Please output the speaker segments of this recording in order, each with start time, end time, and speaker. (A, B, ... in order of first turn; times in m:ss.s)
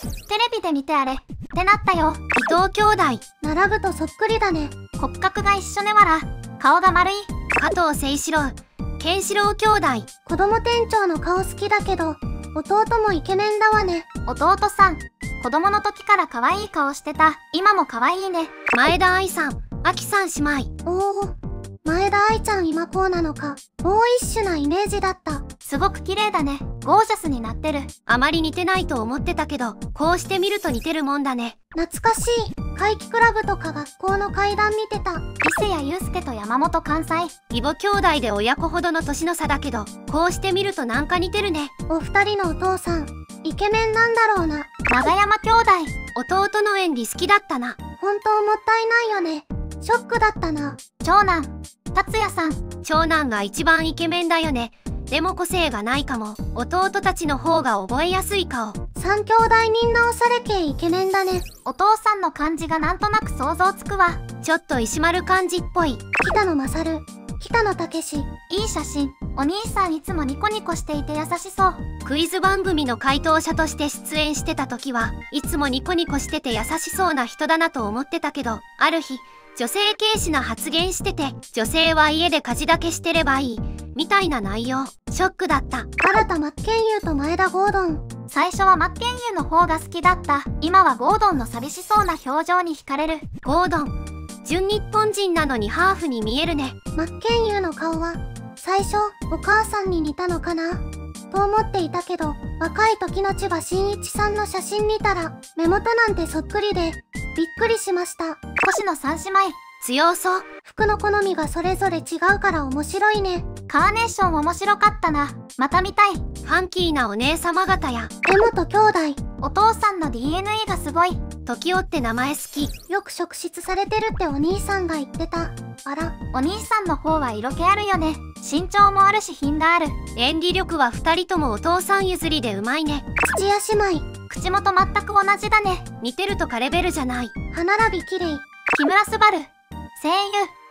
0:00.3-0:02.2 A
0:02.4-0:03.2 B
0:03.4-0:04.7 C
0:05.0-0:07.3 A
0:07.6-0:10.1 B
0:10.2-0:14.1 C
0:14.2-0:18.5 A
0:18.7-0:20.7 B
0:20.8-0:25.4 C
0:25.6-0:27.9 A
0:28.1-0:31.6 B
0:31.7-0:35.2 C
0:35.4-0:37.3 A
0:37.5-0:41.7 B
0:41.9-0:44.7 C
0:44.9-0:45.9 A
0:46.1-0:47.8 B
0:48.0-0:50.8 C
0:51.0-0:52.6 A
0:52.8-0:58.8 B
0:59.0-1:01.4 C
1:01.6-1:04.2 A
1:04.4-1:06.0 B
1:06.2-1:08.3 C
1:08.5-1:11.8 A
1:12.0-1:25.9 B
1:26.0-1:28.0 C
1:28.3-1:33.3 A
1:33.4-1:36.8 B
1:36.9-1:48.4 C
1:48.6-1:49.6 A
1:49.8-1:50.4 B
1:50.6-1:53.5 C
1:53.7-1:56.2 A
1:56.4-1:58.1 B
1:58.2-1:59.2 C
1:59.4-2:01.2 A
2:01.4-2:02.7 B
2:02.9-2:06.1 C
2:06.3-2:10.0 A
2:10.1-2:13.0 B
2:13.2-2:14.1 C
2:14.3-2:15.9 A
2:16.0-2:17.3 B
2:17.5-2:18.4 C
2:18.7-2:20.5 A